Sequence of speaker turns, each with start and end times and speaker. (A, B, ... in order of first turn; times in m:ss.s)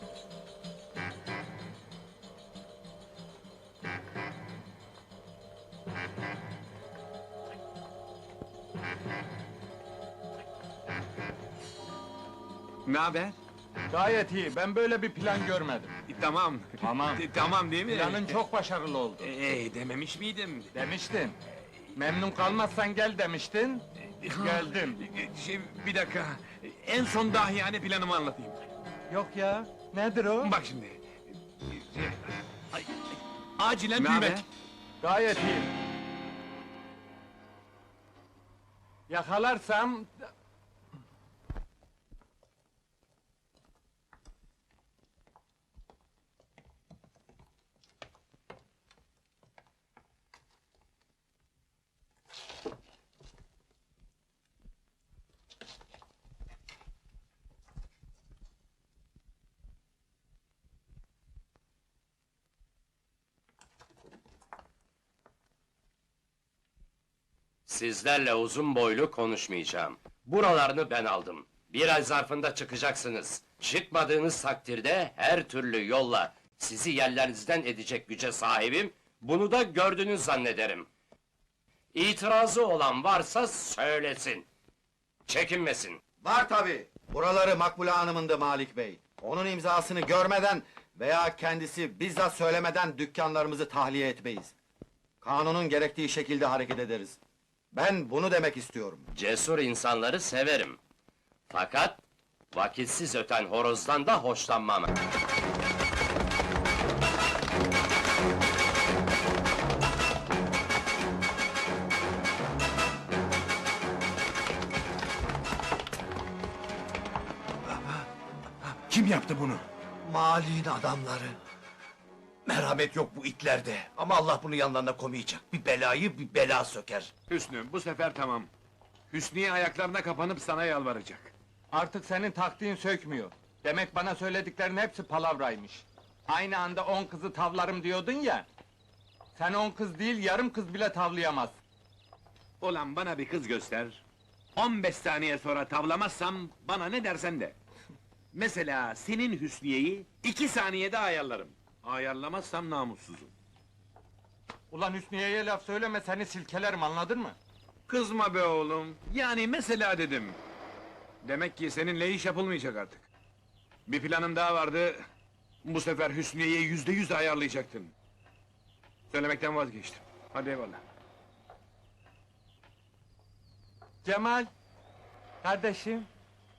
0:12.8-0:13.4 A
0:13.9-0:15.9 B
0:16.1-0:18.4 A
0:16.8-0:17.2 B
0:17.9-0:19.3 B
0:19.2-0:20.7 A
0:20.7-0:21.4 B
0:21.9-0:23.8 B
0:24.2-0:28.6 A
0:24.4-0:25.0 B
0:29.1-0:30.5 B
0:30.4-0:34.4 A
0:34.0-0:34.4 B
0:35.0-0:35.7 B
0:39.1-0:40.3 B
1:07.7-1:20.9 C
1:21.9-1:24.4 C
1:25.3-1:26.0 C
1:26.2-1:34.5 D
1:35.2-1:37.2 D
1:37.7-1:39.0 D
1:39.1-1:40.8 C
1:41.5-1:42.0 C
1:42.5-1:44.9 C
1:58.9-2:01.3 E
2:02.4-2:07.1 E
2:07.3-2:08.5 A
2:09.1-2:11.3 A
2:11.7-2:18.4 B
2:19.3-2:21.6 B
2:22.6-2:24.0 A
2:24.6-2:27.6 A
2:28.3-2:33.3 A
2:34.7-2:37.4 B
2:37.9-2:40.4 A
2:41.2-2:43.0 A
2:43.9-2:45.0 A
2:45.6-2:47.9 A
2:49.1-2:50.8 A
2:54.0-2:54.5 B
2:55.4-2:56.1 B